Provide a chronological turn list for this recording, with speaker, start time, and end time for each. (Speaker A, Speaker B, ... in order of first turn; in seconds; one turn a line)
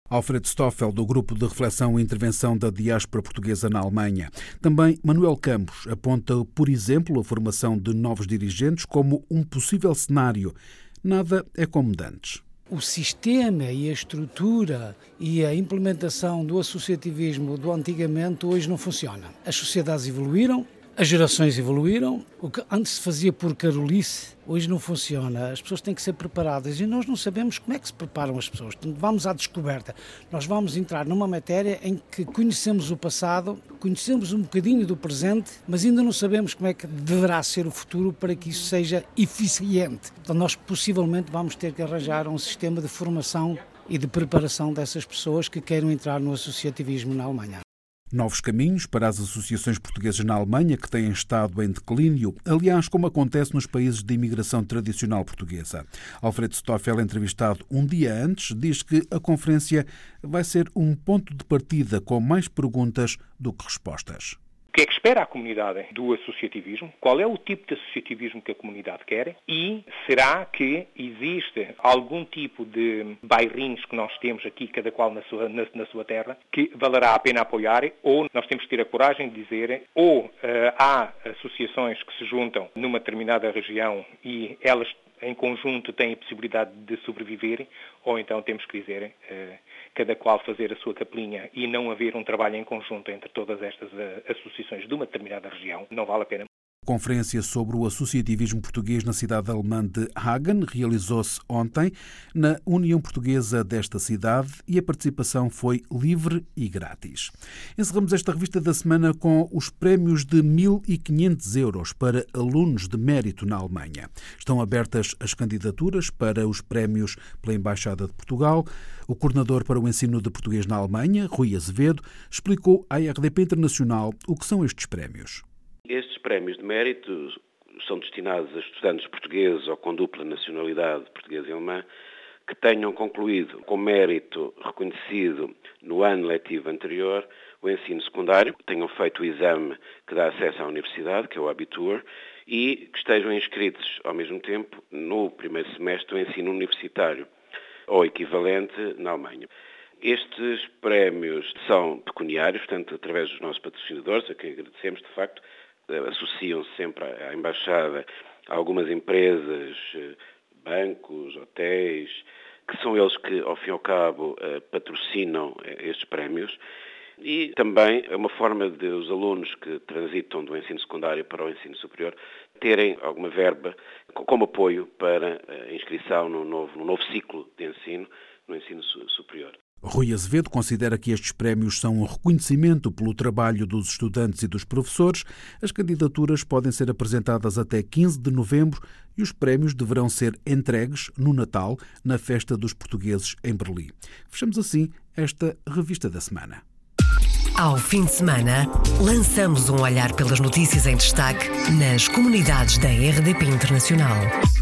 Speaker A: 0.1-12.4
Speaker B: 12.7-47.6
Speaker A: 48.1-64.4
Speaker C: 64.7-96.5
Speaker A: 96.9-125.4
Speaker D: 125.9-131.8
Speaker D: 132.5-147.3
Speaker D: 147.9-149.5
Speaker D: 150.0-166.6
Speaker D: 167.2-179.6
Speaker A: 179.8-196.6
Speaker E: 197.6-204.3